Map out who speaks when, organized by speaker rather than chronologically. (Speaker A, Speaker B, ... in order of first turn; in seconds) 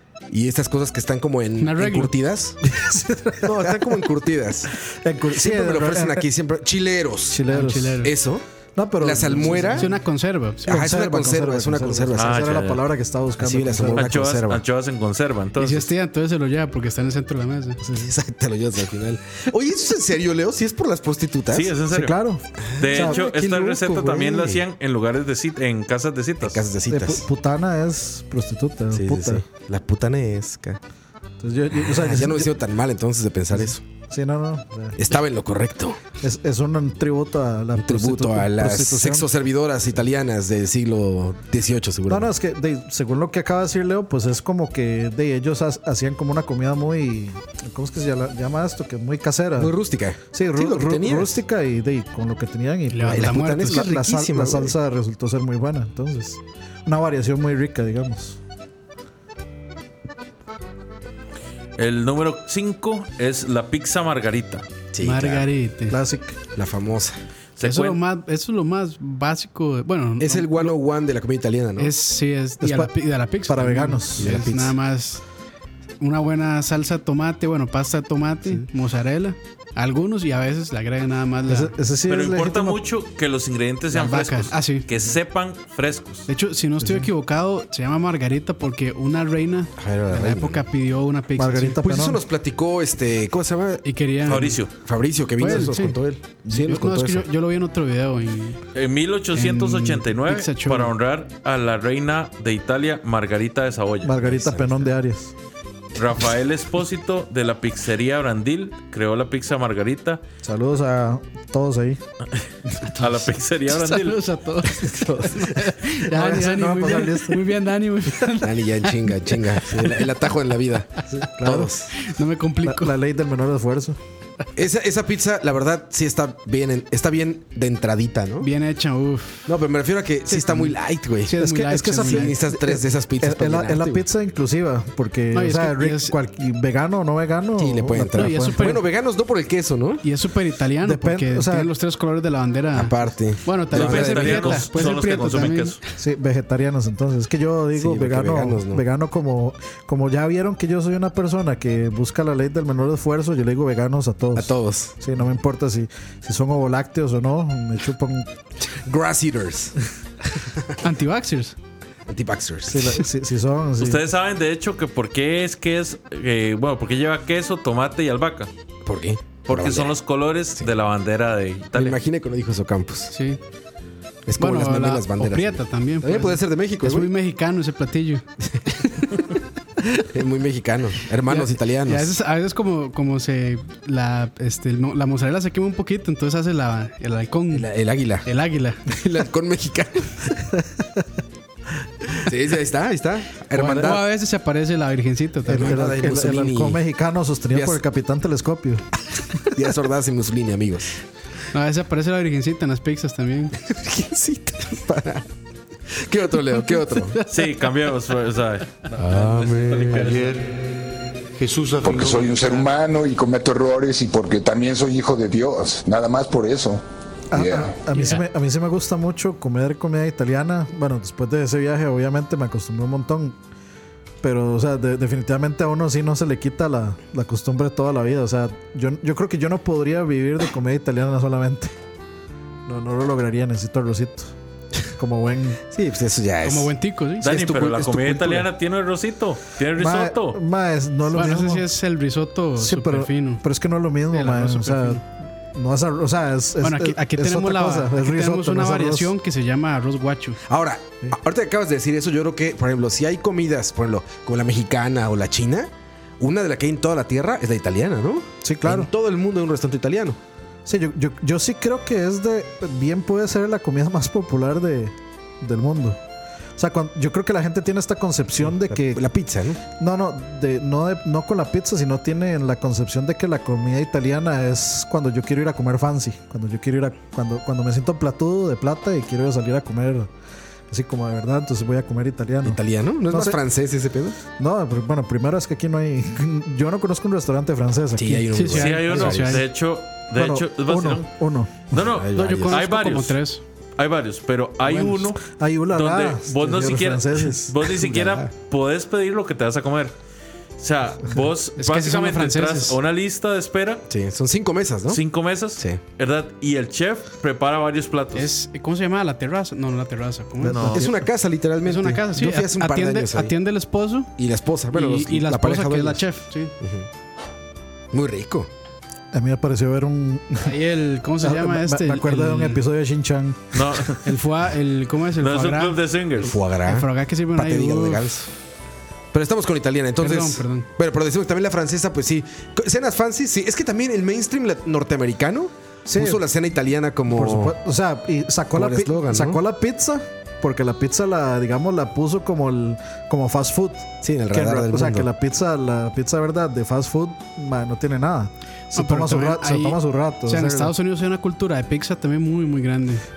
Speaker A: 0.3-2.6, 3.4-4.7, 5.3-8.4, 9.0-9.9, 10.7-12.7, 13.4-14.6, 17.9-21.8, 22.6-24.6, 26.4-27.3, 28.9-30.8, 31.7-33.8, 35.0-36.0, 37.8-42.3, 49.6-51.4, 53.1-54.8, 64.9-65.5, 66.5-67.2, 70.2-71.9, 74.2-74.8, 89.8-90.6, 91.8-97.2, 104.2-104.7, 114.8-115.5, 118.4-121.9, 124.5-128.5, 129.5-134.1, 137.6-140.0, 142.7-144.7, 147.7-148.8, 154.3-154.9, 158.6-159.8, 162.1-163.1, 168.9-169.9, 171.7-173.1, 174.3-177.1, 180.0-182.1, 187.5-188.3, 188.9-190.4, 192.2-194.0, 195.5-196.8, 197.5-197.8, 199.4-201.0, 203.6-205.3, 205.9-207.2, 209.0-210.2, 235.7-238.5, 250.5-260.2, 268.4-269.6, 282.4-284.2, 288.0-289.4, 291.8-292.6, 297.6-298.3, 303.9-305.0, 310.7-313.3, 314.2-316.1, 316.6-316.9, 317.9-318.5, 326.2-328.3, 329.1-337.6, 338.5-339.4, 344.0-345.1
Speaker B: 1.6-2.1, 7.5-8.1, 9.7-10.9, 15.6-17.8, 52.9-53.9, 65.0-66.0, 67.6-70.8, 71.8-75.2, 76.0-81.7, 83.9-84.9, 86.3-91.9, 93.8-94.6, 95.4-96.0, 96.5-98.6, 99.3-100.9, 113.7-120.2, 121.9-123.0, 128.4-129.5, 130.3-132.4, 135.3-136.2, 138.1-138.8, 140.0-145.8, 160.8-161.6, 173.1-173.4, 174.4-179.1, 181.3-187.7, 188.2-188.9, 193.5-195.9, 201.5-203.6, 206.9-207.7, 217.9-218.2, 236.4-237.3, 241.1-243.4, 244.1-245.0, 246.6-250.4, 288.2-289.4, 292.1-293.4, 294.6-295.1, 301.6-302.8, 308.1-310.8, 311.6-314.1, 314.7-316.5, 320.4-322.6, 324.0-325.8, 326.6-328.1, 330.0-330.7, 348.7-353.0
Speaker C: 2.6-4.0, 4.9-6.3, 7.3-8.1, 8.8-10.0, 10.7-14.2, 17.8-18.1, 21.9-23.2, 26.9-29.4, 31.4-32.5, 33.5-35.0, 36.2-39.3, 42.1-49.7, 50.3-58.4, 65.9-66.4, 72.6-72.9, 73.5-74.4, 81.5-82.8, 86.8-87.1, 91.4-92.2, 104.0-105.3, 110.4-112.0, 116.0-117.5, 121.2-121.7, 122.6-124.0, 131.4-138.8, 140.8-141.7, 146.0-158.3, 162.7-164.0, 195.5-198.9, 217.3-223.4, 224.2-231.7, 232.7-234.3, 234.9-235.6, 239.8-241.7, 242.6-249.1, 258.4-258.9, 260.7-266.0, 266.6-269.1, 269.8-280.1, 280.7-283.4, 284.4-288.2, 290.2-291.7, 295.3-297.6, 310.4-310.9, 319.1-320.5, 321.2-323.7, 335.9-336.2, 337.1-350.7
Speaker D: 12.2-12.8, 13.9-15.9, 21.5-22.2, 22.8-26.6, 61.8-64.7, 67.6-68.0, 82.1-86.3, 94.3-94.7, 98.8-104.2, 106.0-110.2, 112.8-114.2, 143.7-145.8, 163.8-168.5, 169.5-172.0, 207.3-210.5, 237.2-240.4, 288.5-293.2, 293.8-295.2, 295.7-299.9, 300.6-303.8, 304.9-308.3, 310.5-310.9, 323.5-324.1, 325.2-326.4
Speaker E: 211.5-216.8, 217.3-217.8